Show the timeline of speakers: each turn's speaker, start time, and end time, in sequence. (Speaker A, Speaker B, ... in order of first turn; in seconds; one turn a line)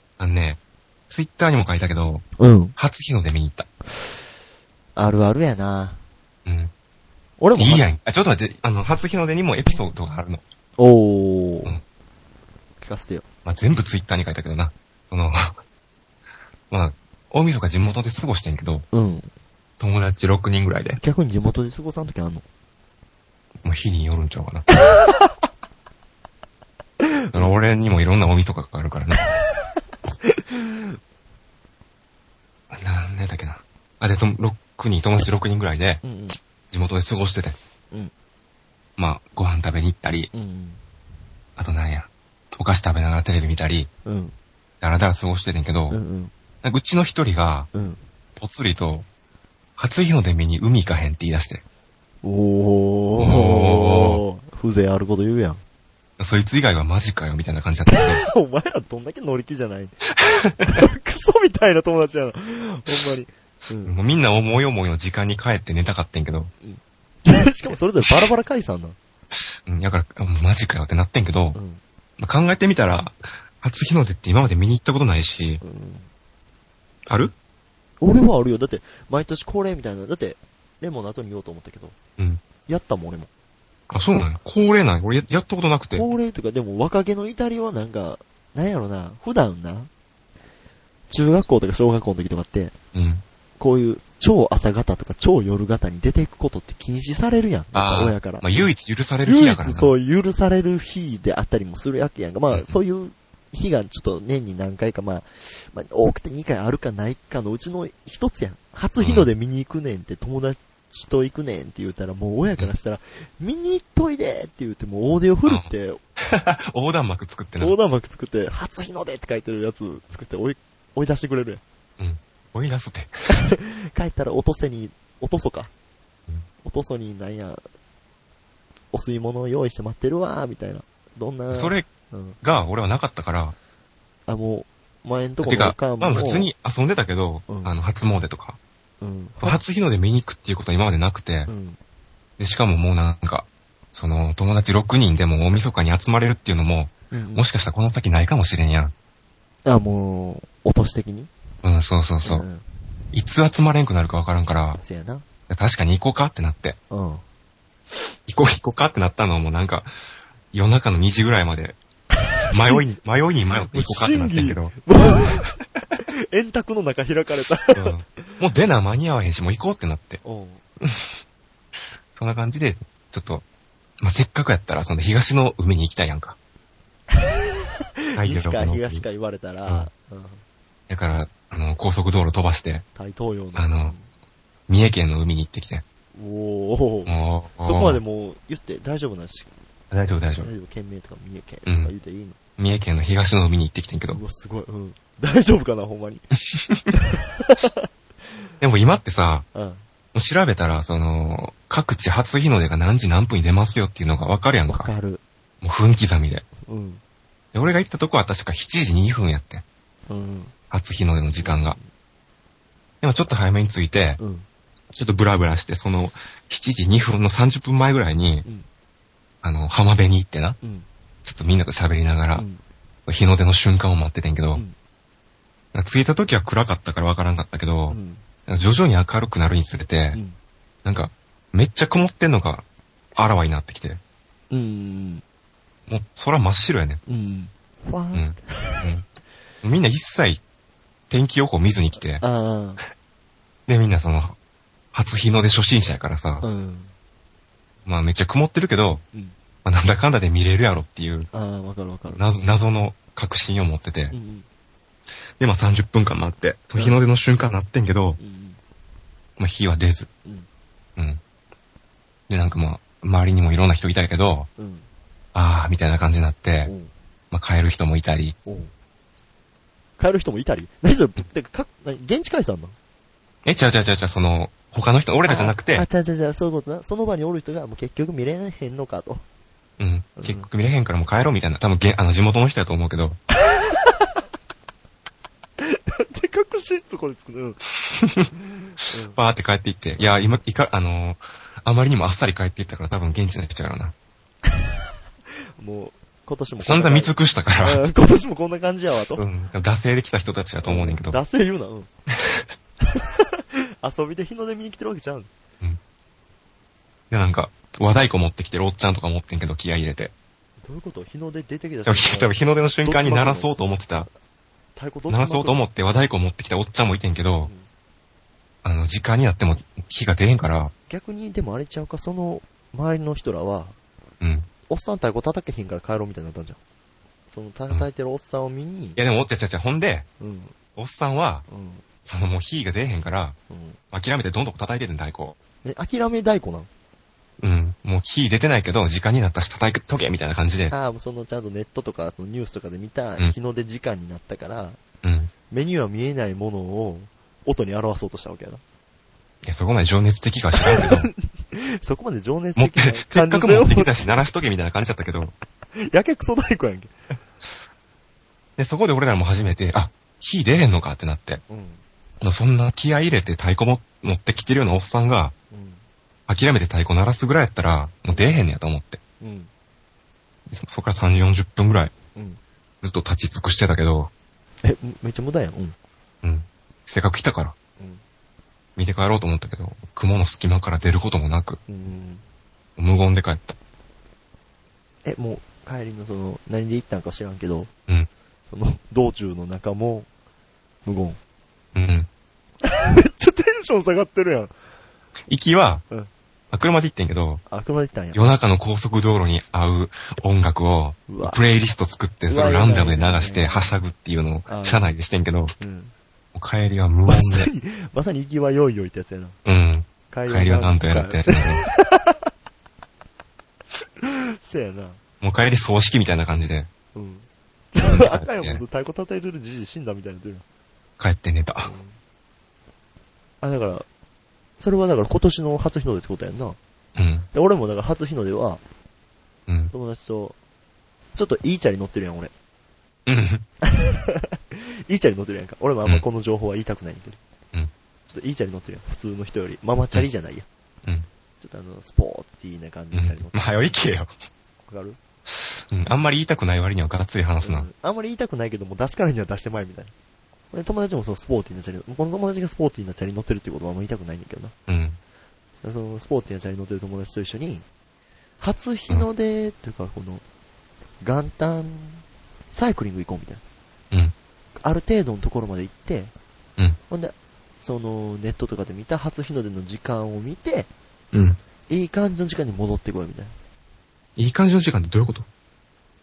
Speaker A: 0.2-3.7
Speaker B: 2.4-2.8
Speaker B: 5.0-6.0
Speaker A: 6.5-6.7
Speaker B: 7.4-7.9
Speaker A: 7.5-10.4
Speaker B: 10.8-11.8
Speaker B: 12.8-13.2
Speaker A: 13.4-15.6
Speaker A: 16.7-18.9
Speaker B: 18.9-19.3
Speaker A: 19.8-21.0
Speaker B: 21.0-22.4
Speaker A: 23.6-24.7
Speaker B: 27.0-27.7
Speaker A: 27.3-29.2
Speaker B: 30.2-31.0
Speaker A: 32.7-36.0
Speaker B: 36.0-36.4
Speaker A: 36.7-37.6
Speaker A: 39.0-40.3
Speaker B: 40.3-40.8
Speaker A: 41.6-43.9
Speaker B: 44.0-44.4
Speaker A: 44.8-46.0
Speaker B: 45.9-46.3
Speaker A: 46.6-47.7
Speaker B: 47.7-48.0
Speaker A: 48.4-49.1
Speaker A: 49.8-51.6
Speaker B: 52.2-55.6
Speaker A: 53.2-54.2
Speaker A: 56.2-58.2
Speaker B: 57.9-60.0
Speaker A: 60.4-60.8
Speaker B: 60.6-63.9
Speaker A: 63.9-66.5
Speaker B: 66.6-69.0
Speaker A: 69.7-71.6
Speaker B: 71.5-71.8
Speaker A: 72.2-75.6
Speaker B: 75.6-76.1
Speaker A: 77.1-77.3
Speaker B: 78.0-82.0
Speaker B: 82.7-83.3
Speaker A: 83.9-86.1
Speaker B: 85.9-89.9
Speaker B: 91.1-92.8
Speaker A: 92.9-93.2
Speaker B: 93.6-98.7
Speaker A: 97.7-99.9
Speaker B: 99.2-116.0
Speaker A: 102.5-102.8
Speaker A: 109.0-109.3
Speaker A: 116.2-117.8
Speaker B: 117.6-121.6
Speaker A: 122.0-123.1
Speaker B: 123.3-125.7
Speaker B: 126.6-127.6
Speaker B: 128.9-132.4
Speaker A: 131.5-131.9
Speaker A: 132.4-133.6
Speaker B: 134.3-136.5
Speaker A: 135.4-138.6
Speaker B: 137.5-137.7
Speaker B: 139.0-139.6
Speaker A: 139.4-141.5
Speaker B: 141.5-141.8
Speaker A: 142.4-148.9
Speaker B: 147.1-147.5
Speaker B: 149.7-151.3
Speaker A: 151.6-152.5
Speaker B: 152.2-152.7
Speaker A: 153.1-154.8
Speaker B: 154.8-155.2
Speaker A: 155.5-156.8
Speaker B: 156.9-157.2
Speaker A: 158.3-159.9
Speaker A: 160.5-161.8
Speaker B: 162.5-162.9
Speaker A: 162.5-164.8
Speaker B: 163.7-165.6
Speaker B: 166.1-168.4
Speaker A: 167.7-170.2
Speaker B: 170.2-170.6
Speaker A: 170.8-171.2
Speaker A: 172.1-173.4
Speaker A: 174.0-176.4
Speaker B: 177.2-177.5
Speaker B: 178.2-180.4
Speaker A: 178.2-179.1
Speaker A: 180.9-182.8
Speaker B: 183.0-184.1
Speaker A: 183.6-183.9
Speaker A: 184.7-185.8
Speaker B: 186.2-189.5
Speaker A: 187.1-188.0
Speaker A: 189.9-190.5
Speaker B: 190.4-192.4
Speaker A: 191.7-191.9
Speaker A: 192.6-194.2
Speaker B: 194.1-196.2
Speaker A: 196.5-196.8
Speaker B: 196.9-197.9
Speaker A: 198.6-199.5
Speaker B: 199.5-199.8
Speaker A: 200.1-204.9
Speaker B: 204.7-205.2
Speaker A: 205.6-206.4
Speaker B: 206.7-207.0
Speaker A: 207.5-209.6
Speaker B: 210.1-210.5
Speaker A: 210.7-211.8
Speaker B: 211.3-211.9
Speaker A: 213.0-214.2
Speaker B: 214.2-214.5
Speaker A: 214.9-218.5
Speaker A: 219.4-220.6
Speaker B: 220.6-220.9
Speaker A: 221.2-222.4
Speaker B: 222.3-222.6
Speaker A: 223.1-224.6
Speaker A: 225.7-230.2
Speaker B: 227.9-228.2
Speaker B: 230.1-230.4
Speaker A: 230.8-232.6
Speaker A: 233.2-234.0
Speaker B: 234.5-235.2
Speaker A: 235.9-237.0
Speaker B: 237.1-238.9
Speaker A: 238.1-239.1
Speaker A: 239.6-240.4
Speaker A: 241.1-242.2
Speaker B: 242.2-242.8
Speaker A: 243.7-244.4
Speaker A: 244.9-246.5
Speaker B: 246.4-246.9
Speaker A: 247.8-249.0
Speaker A: 249.7-251.3
Speaker B: 251.3-252.2
Speaker A: 252.1-254.2
Speaker B: 254.1-254.5
Speaker A: 255.4-258.2
Speaker B: 258.2-258.6
Speaker A: 259.4-260.1
Speaker A: 261.0-261.2
Speaker A: 262.3-264.5
Speaker B: 264.6-264.9
Speaker A: 265.4-266.7
Speaker B: 266.6-266.9
Speaker A: 267.3-268.4
Speaker B: 268.4-268.7
Speaker B: 270.0-272.8
Speaker A: 273.4-275.9
Speaker B: 275.3-279.2
Speaker A: 279.8-283.2
Speaker B: 280.2-280.5
Speaker B: 283.5-283.9
Speaker B: 285.6-287.6
Speaker A: 287.9-288.3
Speaker B: 288.8-289.2
Speaker A: 289.1-293.9
Speaker B: 290.0-290.4
Speaker B: 295.6-299.2
Speaker A: 296.6-297.8
Speaker A: 299.2-301.2
Speaker B: 300.6-301.9
Speaker B: 302.8-305.3
Speaker A: 307.1-310.1
Speaker B: 310.6-313.5
Speaker A: 311.9-314.1
Speaker B: 314.8-315.6
Speaker A: 315.1-317.5
Speaker B: 317.4-317.7
Speaker A: 318.6-320.7
Speaker B: 320.9-323.8
Speaker A: 324.2-324.5
Speaker B: 324.7-326.6
Speaker B: 327.3-329.0
Speaker A: 329.0-330.1
Speaker B: 330.2-330.6
Speaker A: 330.8-331.5
Speaker B: 331.5-331.9
Speaker A: 332.1-333.4
Speaker B: 333.5-333.8
Speaker A: 333.9-335.4
Speaker B: 335.6-336.7
Speaker A: 337.4-340.7
Speaker B: 340.7-344.8
Speaker A: 345.0-345.3
Speaker B: 345.5-348.6
Speaker A: 349.4-351.1
Speaker B: 350.6-353.9
Speaker A: 352.6-355.3
Speaker B: 355.7-356.9
Speaker A: 358.6-361.4
Speaker B: 361.5-361.8
Speaker A: 362.2-365.3
Speaker B: 365.5-365.8
Speaker A: 366.3-369.0
Speaker B: 369.2-369.5
Speaker A: 370.5-371.9
Speaker B: 372.1-372.4
Speaker A: 372.8-374.1
Speaker B: 374.6-375.8
Speaker A: 376.2-377.6
Speaker A: 378.8-381.6
Speaker B: 381.7-382.2
Speaker A: 382.8-383.6
Speaker B: 385.1-387.7
Speaker B: 388.5-390.1
Speaker B: 390.9-391.2
Speaker A: 391.8-392.1
Speaker B: 392.6-394.5
Speaker A: 395.3-395.8
Speaker A: 396.5-397.4
Speaker B: 397.5-398.2
Speaker A: 398.1-405.5
Speaker B: 401.1-401.4
Speaker B: 402.3-403.8
Speaker B: 404.5-404.9
Speaker B: 405.6-405.9
Speaker A: 406.3-407.5
Speaker B: 407.1-409.4
Speaker A: 409.4-411.6
Speaker B: 410.1-412.2
Speaker B: 414.0-415.0
Speaker A: 415.2-416.7
Speaker B: 416.9-420.4
Speaker A: 417.8-418.6
Speaker A: 421.0-421.7
Speaker B: 421.6-422.0
Speaker B: 423.4-423.9
Speaker B: 424.6-426.6
Speaker A: 427.0-427.3
Speaker B: 427.3-428.6
Speaker A: 429.5-429.7
Speaker B: 429.7-430.4
Speaker B: 431.1-432.3
Speaker A: 433.1-433.4
Speaker B: 433.6-437.2
Speaker B: 438.1-440.5
Speaker B: 441.4-443.5
Speaker A: 442.9-444.1
Speaker B: 444.7-445.0
Speaker A: 445.4-447.7
Speaker B: 447.4-449.9
Speaker B: 450.5-454.5
Speaker A: 454.7-455.0
Speaker B: 455.6-457.6
Speaker B: 458.4-460.2
Speaker B: 461.0-463.4
Speaker B: 464.6-466.1
Speaker B: 466.9-470.7
Speaker A: 471.1-471.4
Speaker B: 471.7-473.3
Speaker A: 474.2-475.3